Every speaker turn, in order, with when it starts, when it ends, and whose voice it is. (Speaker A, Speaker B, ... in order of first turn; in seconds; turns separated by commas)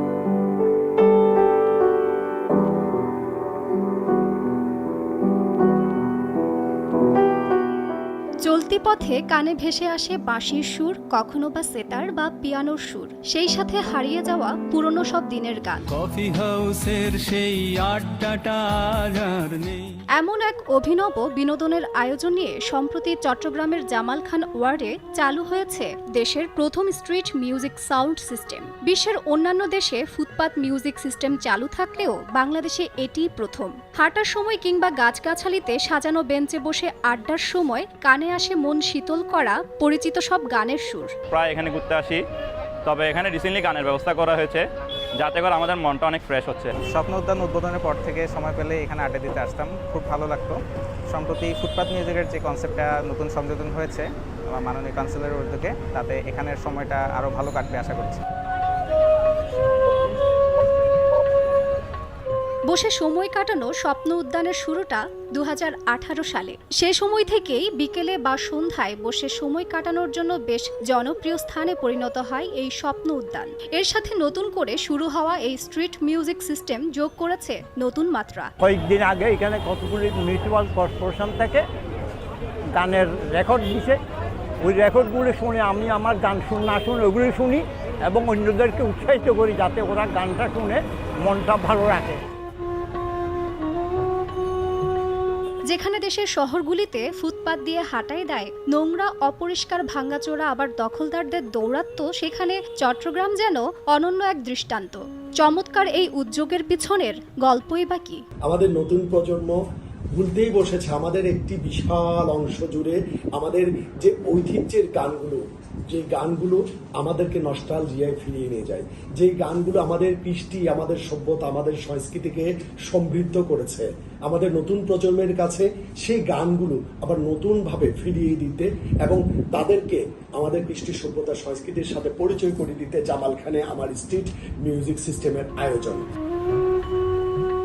Speaker A: 8.4-15.8, Speaker B: 15.9-19.9, Speaker A: 20.2-41.1, Speaker C: 41.3-42.2, Speaker C: 42.9-44.6, Speaker C: 45.1-46.7, Speaker D: 46.8-50.6, Speaker D: 51.1-58.2, Speaker A: 62.7-78.5, Speaker E: 78.6-81.6, Speaker E: 82.7-84.0, Speaker E: 84.6-92.2, Speaker A: 95.7-108.2, Speaker F: 108.5-109.6, Speaker F: 110.1-136.0